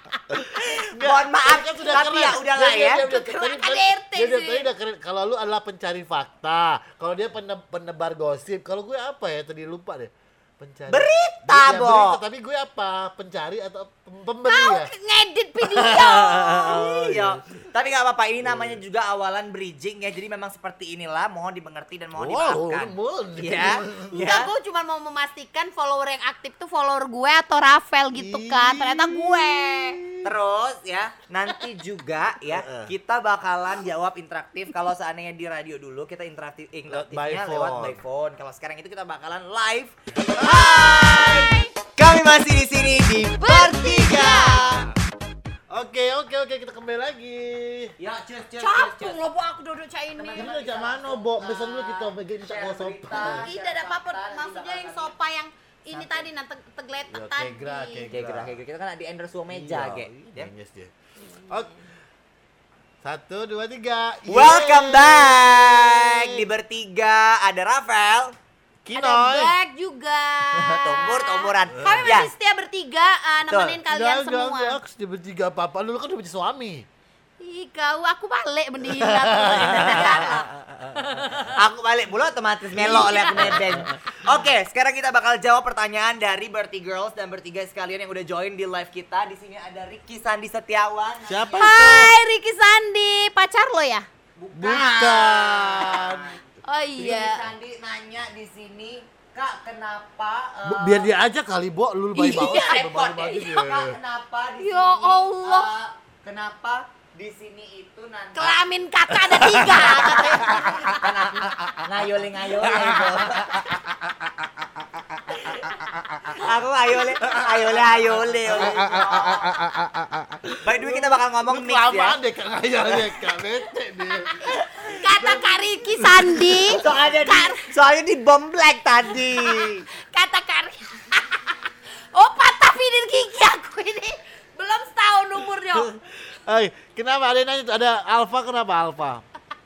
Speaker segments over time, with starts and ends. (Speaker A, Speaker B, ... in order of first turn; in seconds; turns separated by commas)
Speaker A: 0.5-3.0, Speaker B: 0.9-14.9, Speaker C: 3.1-4.7, Speaker A: 10.9-12.2, Speaker C: 14.5-16.8, Speaker B: 15.6-17.4, Speaker A: 16.5-24.5, Speaker B: 18.4-18.8, Speaker B: 22.1-24.3, Speaker C: 24.2-30.0, Speaker B: 28.2-30.4, Speaker A: 30.2-44.9, Speaker B: 32.5-32.9, Speaker B: 36.9-38.0, Speaker B: 40.4-41.6, Speaker C: 43.4-44.8, Speaker B: 45.7-47.9, Speaker A: 48.0-49.2, Speaker C: 48.6-50.5, Speaker A: 50.2-55.1, Speaker B: 50.4-53.5, Speaker C: 53.2-58.1, Speaker A: 55.9-56.3, Speaker B: 57.1-58.6, Speaker A: 58.1-60.5, Speaker B: 59.5-61.9, Speaker B: 63.0-66.4, Speaker A: 64.3-68.3, Speaker B: 68.8-69.6, Speaker C: 69.0-74.8, Speaker A: 70.5-72.3, Speaker A: 73.5-73.8, Speaker B: 73.9-76.9, Speaker C: 77.4-81.4, Speaker B: 79.0-81.5, Speaker A: 79.5-80.4, Speaker A: 81.5-91.8, Speaker B: 82.8-83.9, Speaker C: 82.9-83.7, Speaker B: 91.3-92.1, Speaker C: 91.6-94.1, Speaker A: 94.4-96.4, Speaker B: 94.5-96.4, Speaker C: 96.7-97.5, Speaker A: 97.0-101.1, Speaker B: 100.7-104.0, Speaker C: 102.2-102.8, Speaker A: 102.6-108.6, Speaker C: 104.6-105.7, Speaker C: 108.3-110.8, Speaker B: 109.2-116.5, Speaker A: 109.6-113.8, Speaker A: 116.3-119.5, Speaker B: 117.2-127.1, Speaker A: 120.7-122.2, Speaker C: 124.4-127.7, Speaker A: 126.6-129.9, Speaker C: 129.2-135.9, Speaker B: 135.6-139.2